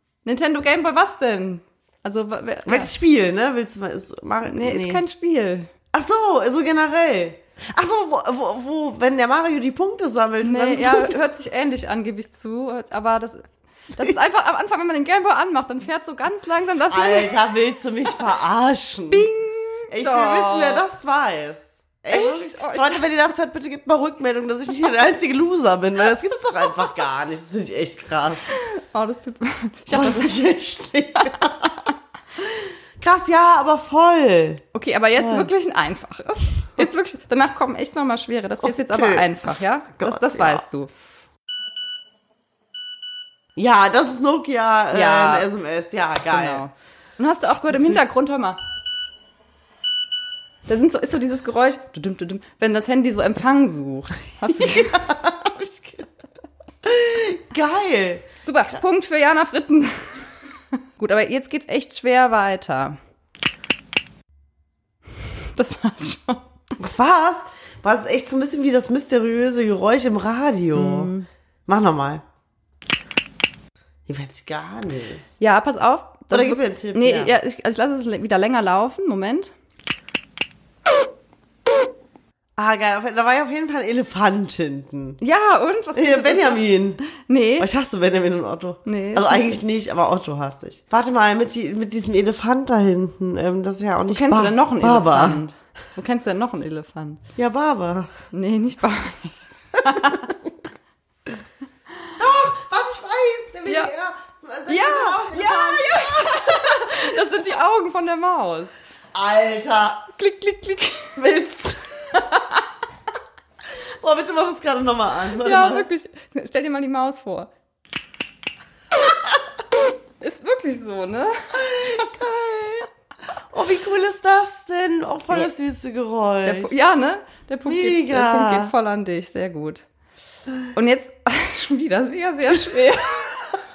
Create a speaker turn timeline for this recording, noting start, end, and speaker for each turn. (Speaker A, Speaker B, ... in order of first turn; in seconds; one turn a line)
Speaker A: 0.2-2.9
Speaker B: 2.6-5.0
Speaker A: 4.4-5.7
Speaker B: 5.9-11.2
Speaker A: 10.4-17.4
Speaker B: 16.9-19.3
Speaker A: 19.1-20.8
Speaker B: 19.9-28.4
Speaker A: 22.1-23.0
Speaker A: 28.6-30.4
Speaker B: 29.9-34.6
Speaker A: 34.7-40.9
Speaker B: 35.2-35.5
Speaker B: 38.6-40.6
Speaker B: 43.5-46.6
Speaker A: 44.9-45.5
Speaker A: 46.3-48.6
Speaker B: 47.6-48.0
Speaker A: 50.7-55.0
Speaker B: 54.5-56.1
Speaker B: 56.8-58.3
Speaker A: 58.4-60.3
Speaker A: 61.0-63.0
Speaker A: 65.5-66.4
Speaker B: 66.8-71.1
Speaker A: 70.7-71.3
Speaker B: 71.7-72.2
Speaker B: 74.1-75.4
Speaker A: 75.4-79.5
Speaker B: 76.3-77.4
Speaker B: 82.5-85.2
Speaker A: 85.2-87.7
Speaker B: 85.9-87.0
Speaker B: 87.6-95.4
Speaker A: 88.8-89.6
Speaker A: 94.1-97.2
Speaker B: 97.4-98.1
Speaker A: 98.3-100.3
Speaker B: 102.2-107.1
Speaker A: 103.7-103.9
Speaker A: 104.7-108.7
Speaker B: 109.1-110.1
Speaker A: 110.1-111.1
Speaker B: 111.2-112.6
Speaker B: 114.0-115.9
Speaker A: 115.4-117.5
Speaker A: 120.2-122.0
Speaker B: 121.5-122.9
Speaker B: 123.5-126.7
Speaker A: 126.4-129.8
Speaker B: 127.7-128.7
Speaker A: 130.7-133.5